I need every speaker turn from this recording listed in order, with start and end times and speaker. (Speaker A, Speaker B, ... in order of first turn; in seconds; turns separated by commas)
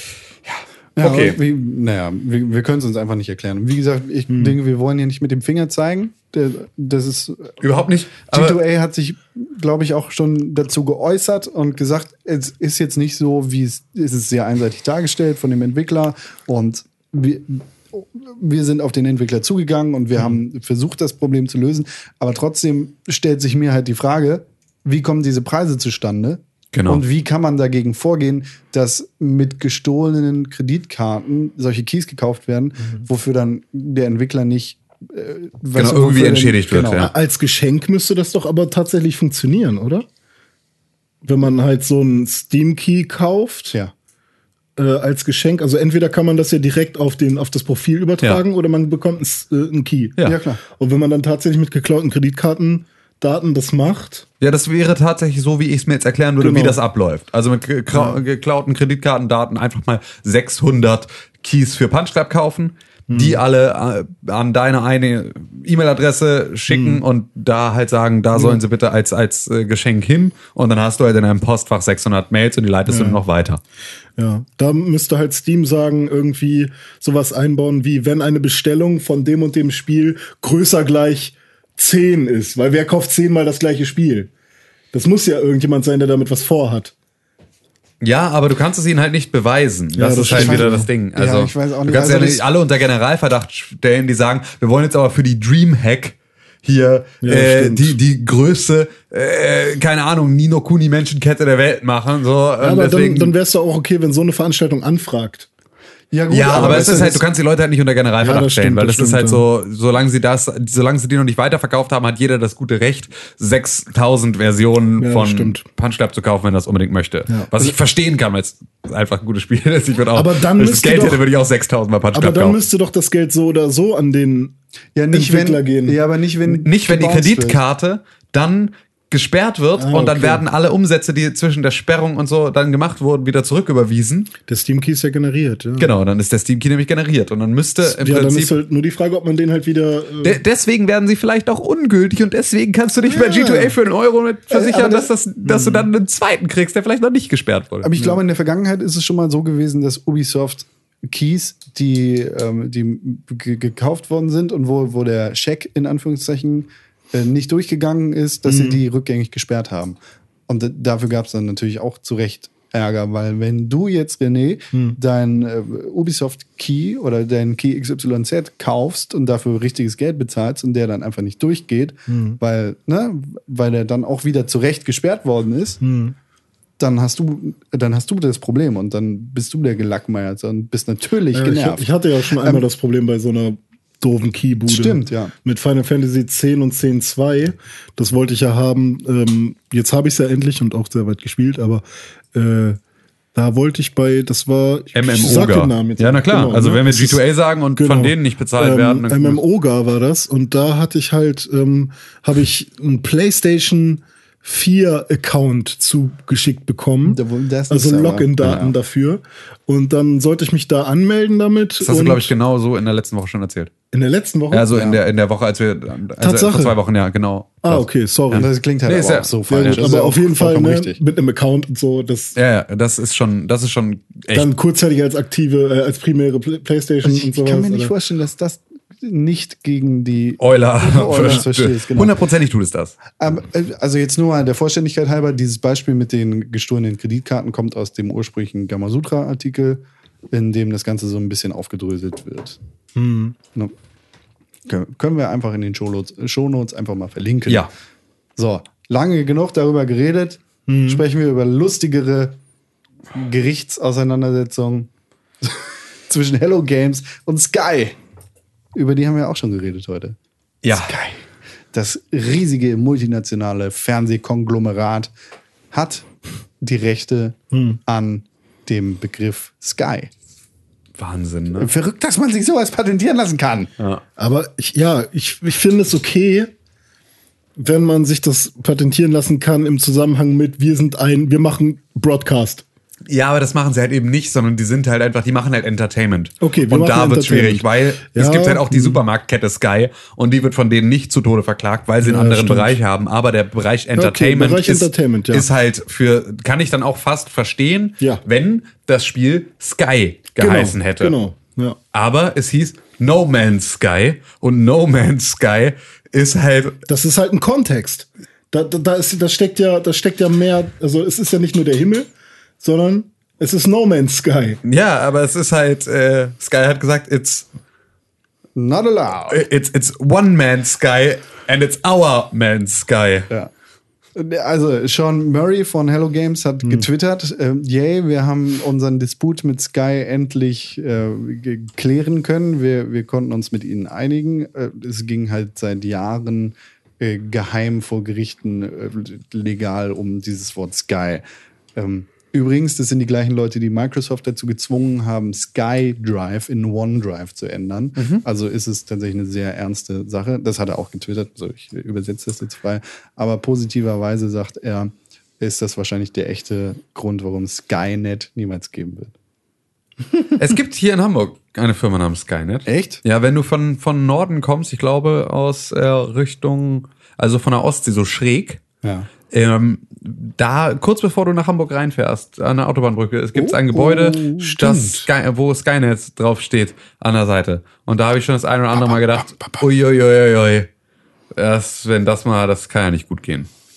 Speaker A: 0.5-1.4, Speaker B: 0.9-7.6, Speaker C: 4.3-4.5, Speaker A: 7.6-8.6, Speaker B: 8.3-37.1, Speaker A: 26.7-27.0, Speaker A: 35.7-37.1, Speaker C: 37.0-40.0, Speaker C: 41.2-43.7, Speaker C: 44.8-54.2, Speaker B: 50.2-50.6, Speaker A: 54.4-73.6, Speaker C: 56.4-56.8, Speaker C: 63.1-63.4, Speaker C: 66.7-67.0, Speaker C: 68.3-68.6, Speaker C: 72.9-73.2, Speaker C: 74.2-84.3, Speaker C: 84.9-86.9, Speaker A: 88.0-103.3, Speaker C: 89.9-90.9, Speaker B: 90.3-92.4, Speaker C: 97.2-98.0, Speaker C: 102.6-105.5, Speaker B: 106.1-107.2, Speaker A: 106.3-122.6, Speaker C: 106.5-107.1, Speaker C: 108.2-109.4, Speaker C: 115.0-115.6, Speaker C: 120.1-121.2, Speaker C: 122.1-124.5, Speaker B: 125.0-127.6, Speaker C: 125.1-126.0, Speaker A: 126.5-134.3, Speaker C: 129.8-130.4, Speaker C: 134.5-135.9, Speaker A: 135.8-138.5, Speaker C: 137.8-140.4, Speaker A: 140.2-147.9, Speaker C: 143.1-143.7, Speaker B: 144.5-145.1, Speaker B: 147.8-175.8, Speaker C: 158.4-158.8, Speaker C: 172.1-172.4, Speaker C: 175.8-176.1, Speaker B: 176.8-181.8, Speaker C: 181.3-192.8, Speaker B: 182.3-182.6, Speaker B: 184.7-185.3, Speaker C: 193.3-197.2, Speaker A: 194.9-199.4, Speaker C: 197.8-212.3, Speaker B: 207.0-208.7, Speaker A: 211.8-213.7, Speaker C: 213.9-214.8, Speaker A: 214.5-219.8, Speaker B: 214.7-215.0, Speaker C: 216.2-216.8, Speaker C: 217.6-218.5, Speaker B: 218.3-221.0, Speaker C: 219.5-222.3, Speaker A: 222.3-224.5, Speaker C: 224.3-227.9, Speaker B: 227.0-232.1, Speaker A: 230.4-233.0, Speaker B: 233.2-242.6, Speaker C: 242.9-243.3, Speaker B: 244.7-247.7, Speaker B: 248.4-252.4, Speaker C: 250.7-251.0, Speaker B: 253.1-254.9, Speaker B: 255.4-258.0, Speaker B: 258.7-260.1, Speaker A: 260.6-260.9, Speaker B: 260.7-265.1, Speaker B: 265.7-266.1, Speaker B: 266.6-270.1, Speaker C: 267.5-267.8, Speaker A: 271.0-271.7, Speaker B: 271.6-273.7, Speaker C: 274.2-276.5, Speaker C: 277.6-282.6, Speaker A: 283.1-301.1, Speaker C: 286.4-289.0, Speaker C: 292.0-292.8, Speaker C: 293.9-295.5, Speaker C: 300.4-301.8, Speaker A: 301.9-306.8, Speaker C: 306.9-312.1, Speaker C: 312.6-314.6, Speaker A: 314.6-317.5, Speaker B: 318.6-319.4, Speaker A: 319.3-323.3, Speaker B: 324.1-341.2, Speaker B: 341.8-359.1, Speaker A: 348.0-348.2, Speaker A: 360.3-368.6, Speaker B: 362.6-363.0, Speaker B: 368.8-369.1, Speaker A: 369.3-380.7, Speaker B: 373.3-375.1, Speaker B: 378.7-379.6, Speaker A: 381.3-383.5